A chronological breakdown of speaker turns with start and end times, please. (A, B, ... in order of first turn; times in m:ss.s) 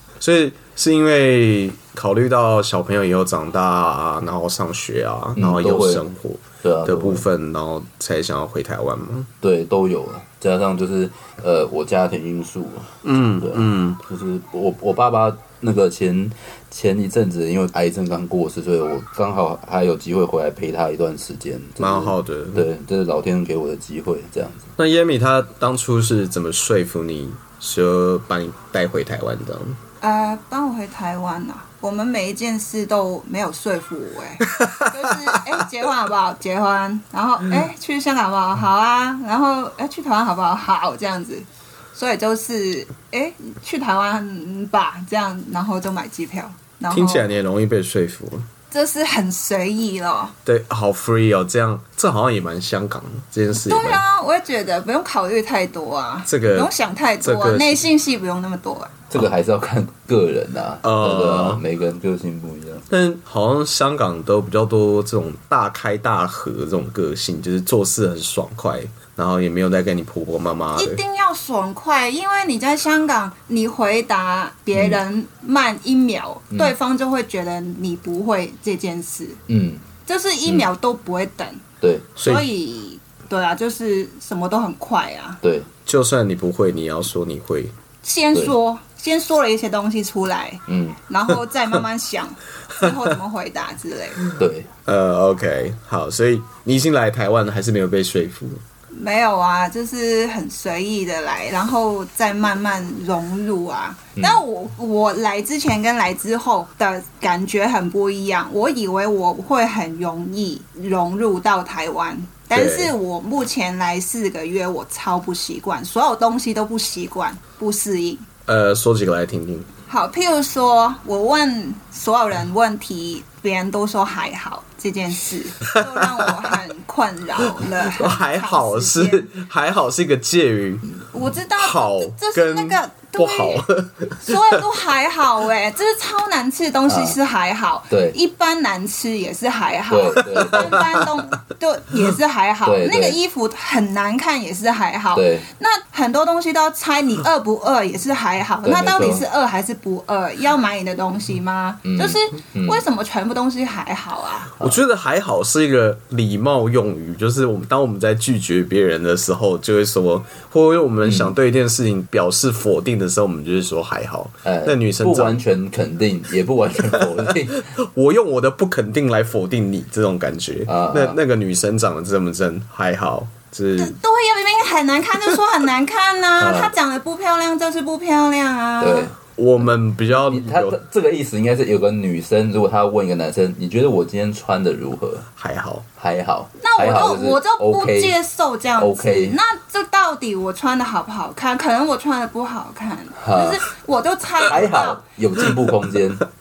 0:00.2-0:09.3 A
0:05.4-0:06.0 B
0:06.6-0:07.3 B
0:09.4-0:24.7 B
0:13.0-0:14.0 A
0:21.8-0:22.7 A
0:24.8-0:29.8 A
0:30.0-0:47.3 C
0:34.5-0:35.4 A
0:46.9-0:48.5 A
0:48.7-0:50.4 C
0:50.4-0:54.0 A
0:53.5-0:58.9 C
0:56.3-0:56.7 A
0:57.2-0:57.9 A
0:59.1-1:02.9 B
1:00.8-1:01.6 A
1:02.9-1:11.0 A
1:10.8-1:19.4 C
1:14.8-1:15.0 B
1:19.5-1:19.9 B
1:20.1-1:21.6 C
1:21.8-1:22.1 B
1:22.2-1:25.4 C
1:22.2-1:22.5 A
1:25.4-1:25.7 B
1:25.9-1:27.7 A
1:28.0-1:34.2 C
1:30.7-1:31.0 B
1:34.4-1:34.7 B
1:34.9-1:38.6 A
1:38.9-1:58.3 C
1:44.2-1:44.4 B
1:52.5-1:52.9 A
1:58.5-1:59.7 A
1:59.9-2:09.3 C
2:05.7-2:06.5 A
2:07.6-2:10.9 A
2:11.1-2:13.6 C
2:11.6-2:14.6 A
2:14.2-2:34.5 C
2:16.9-2:17.2 B
2:17.9-2:18.2 B
2:19.9-2:20.9 B
2:20.3-2:20.7 A
2:22.6-2:23.2 B
2:25.2-2:25.5 B
2:28.6-2:29.2 B
2:31.8-2:32.8 B
2:34.6-2:45.4 A
2:41.0-2:41.4 B
2:44.4-2:47.6 B
2:47.3-2:54.0 A
2:50.7-2:51.2 B
2:53.8-2:59.1 C
2:56.4-2:56.7 B
2:58.8-3:05.3 B
2:59.4-3:00.8 A
3:05.4-3:05.9 A
3:06.0-3:08.2 B
3:06.6-3:15.0 C
3:08.8-3:09.4 B
3:13.2-3:13.6 B
3:14.5-3:16.2 B